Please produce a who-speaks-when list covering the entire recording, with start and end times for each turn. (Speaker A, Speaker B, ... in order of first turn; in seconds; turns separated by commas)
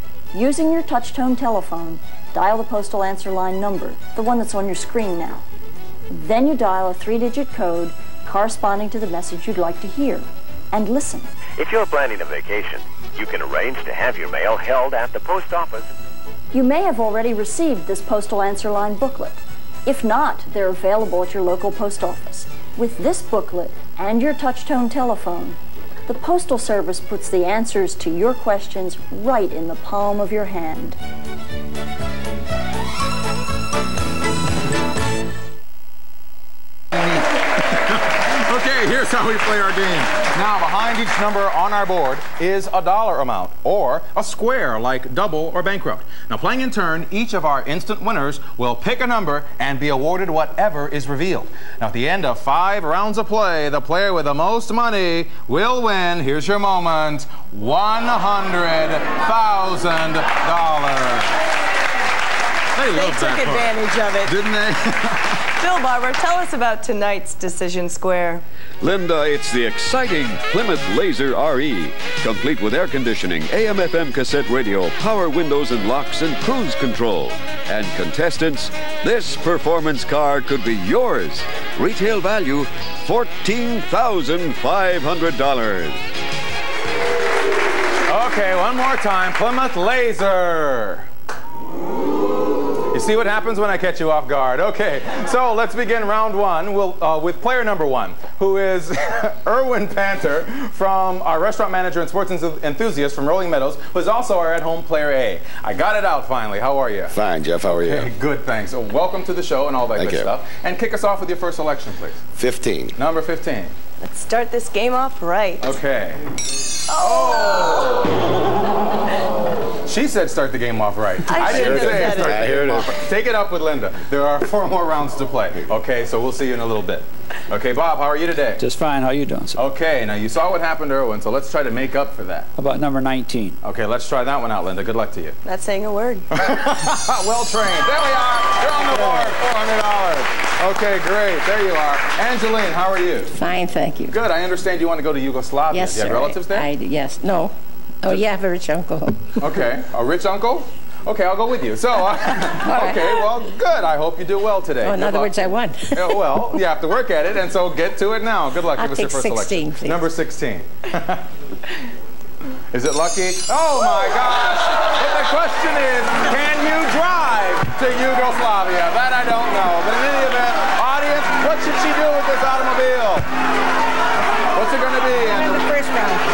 Speaker A: 0.3-5.5, Speaker A: 6.1-11.3, Speaker B: 11.6-15.9, Speaker A: 16.5-31.0, Speaker C: 37.9-61.4, Speaker C: 62.8-65.3, Speaker D: 62.9-64.3, Speaker D: 65.6-68.4, Speaker E: 68.8-86.0, Speaker C: 88.1-91.1, Speaker C: 92.9-112.2, Speaker F: 107.1-108.1, Speaker F: 110.0-110.3, Speaker F: 112.4-112.9, Speaker C: 113.0-113.7, Speaker D: 114.0-115.8, Speaker C: 115.6-116.2, Speaker D: 116.9-117.8, Speaker C: 117.0-118.0, Speaker C: 119.9-128.6, Speaker D: 121.3-122.5, Speaker F: 121.5-123.0, Speaker G: 128.6-129.6, Speaker C: 129.6-132.5, Speaker G: 132.6-133.6, Speaker C: 133.6-135.4, Speaker D: 135.4-136.3, Speaker C: 136.3-143.3, Speaker H: 143.3-144.2, Speaker C: 144.1-146.7, Speaker H: 145.7-149.3, Speaker C: 149.4-161.2, Speaker H: 152.5-153.3, Speaker H: 154.8-156.3, Speaker H: 158.8-160.0, Speaker C: 162.7-173.3, Speaker C: 174.5-175.8